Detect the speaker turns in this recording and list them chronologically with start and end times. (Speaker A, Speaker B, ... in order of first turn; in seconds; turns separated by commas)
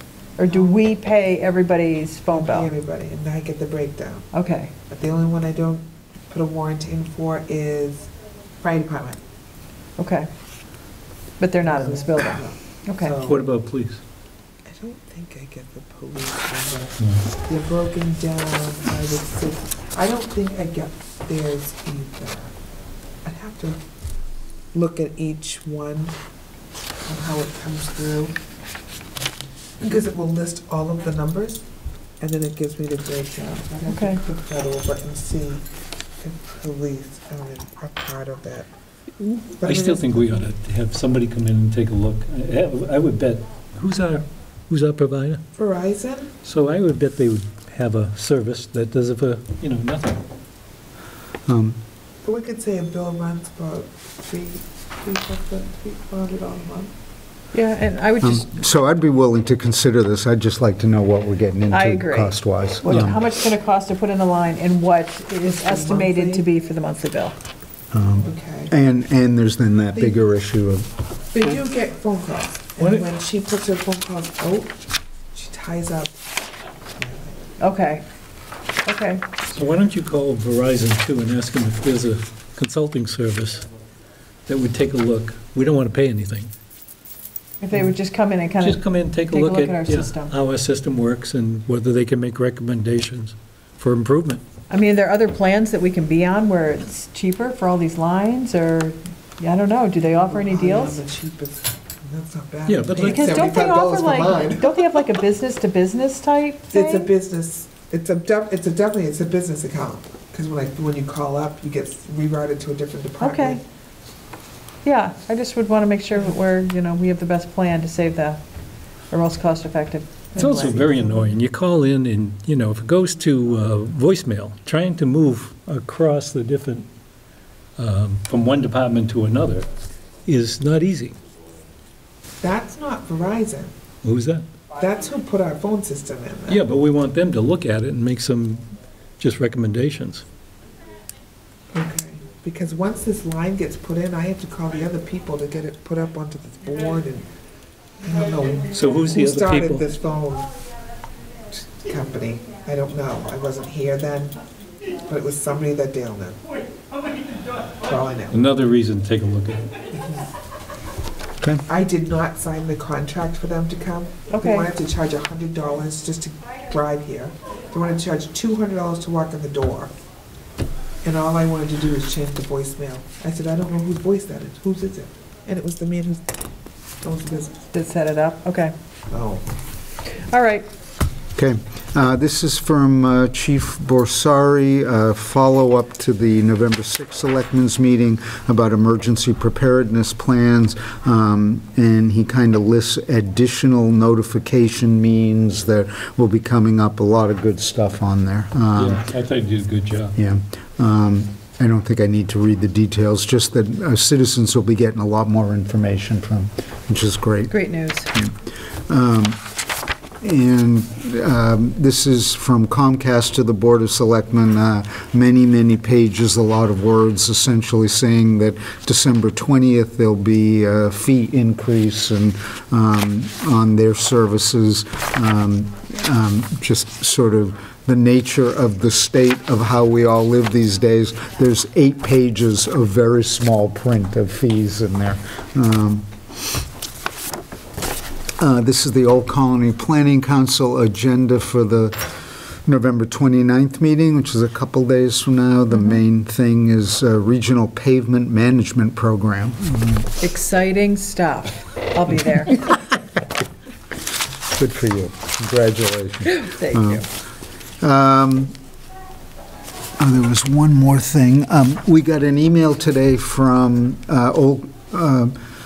Speaker A: 0.4-2.7, Speaker B: 0.5-0.8, Speaker B: 2.3-4.3, Speaker A: 4.3-4.7, Speaker B: 4.9-9.2, Speaker A: 10.0-10.3, Speaker A: 11.4-13.2, Speaker B: 11.6-13.4, Speaker C: 13.2-14.0, Speaker B: 14.7-22.5, Speaker B: 23.2-23.8, Speaker B: 24.7-26.1, Speaker B: 27.1-28.4, Speaker B: 29.8-31.6, Speaker B: 32.2-35.6, Speaker A: 33.9-34.2, Speaker B: 36.2-38.7, Speaker B: 39.6-40.5, Speaker C: 39.6-45.4, Speaker B: 45.5-46.3, Speaker C: 46.4-50.2, Speaker D: 51.5-51.8, Speaker B: 52.2-56.9, Speaker A: 57.5-58.5, Speaker D: 58.2-63.2, Speaker A: 61.7-67.4, Speaker B: 65.5-66.5, Speaker D: 67.9-71.4, Speaker B: 68.2-68.7, Speaker B: 71.3-74.8, Speaker C: 72.8-73.1, Speaker B: 75.3-76.3, Speaker B: 77.0-77.5, Speaker A: 77.6-78.0, Speaker A: 78.8-79.3, Speaker C: 79.5-83.7, Speaker C: 84.5-86.5, Speaker A: 87.6-90.3, Speaker C: 88.6-94.4, Speaker A: 94.7-101.0, Speaker B: 100.3-104.9, Speaker C: 102.7-103.4, Speaker A: 103.0-107.1, Speaker B: 106.7-113.6, Speaker A: 113.2-113.6, Speaker A: 114.8-118.4, Speaker A: 119.1-121.2, Speaker C: 120.4-126.9, Speaker C: 127.8-129.7, Speaker C: 130.3-131.2, Speaker B: 132.4-133.7, Speaker C: 134.0-134.5, Speaker B: 134.8-136.7, Speaker C: 136.5-140.2, Speaker B: 141.7-147.3, Speaker B: 148.0-150.5, Speaker C: 148.7-149.8, Speaker B: 151.5-154.4, Speaker B: 155.0-156.4, Speaker B: 157.8-158.5, Speaker C: 158.3-159.7, Speaker B: 159.9-160.3, Speaker B: 161.7-169.9, Speaker A: 164.3-164.7, Speaker B: 171.0-176.3, Speaker B: 177.0-177.7, Speaker A: 177.7-178.7, Speaker B: 179.1-179.5, Speaker A: 180.2-180.7, Speaker D: 181.3-199.0, Speaker C: 198.8-200.2, Speaker D: 200.2-207.6, Speaker A: 207.5-208.1, Speaker D: 208.9-209.4, Speaker D: 210.2-236.1, Speaker D: 238.4-250.1, Speaker A: 250.2-252.8, Speaker D: 254.5-257.1, Speaker A: 256.3-257.1, Speaker D: 257.8-258.6, Speaker D: 260.0-265.4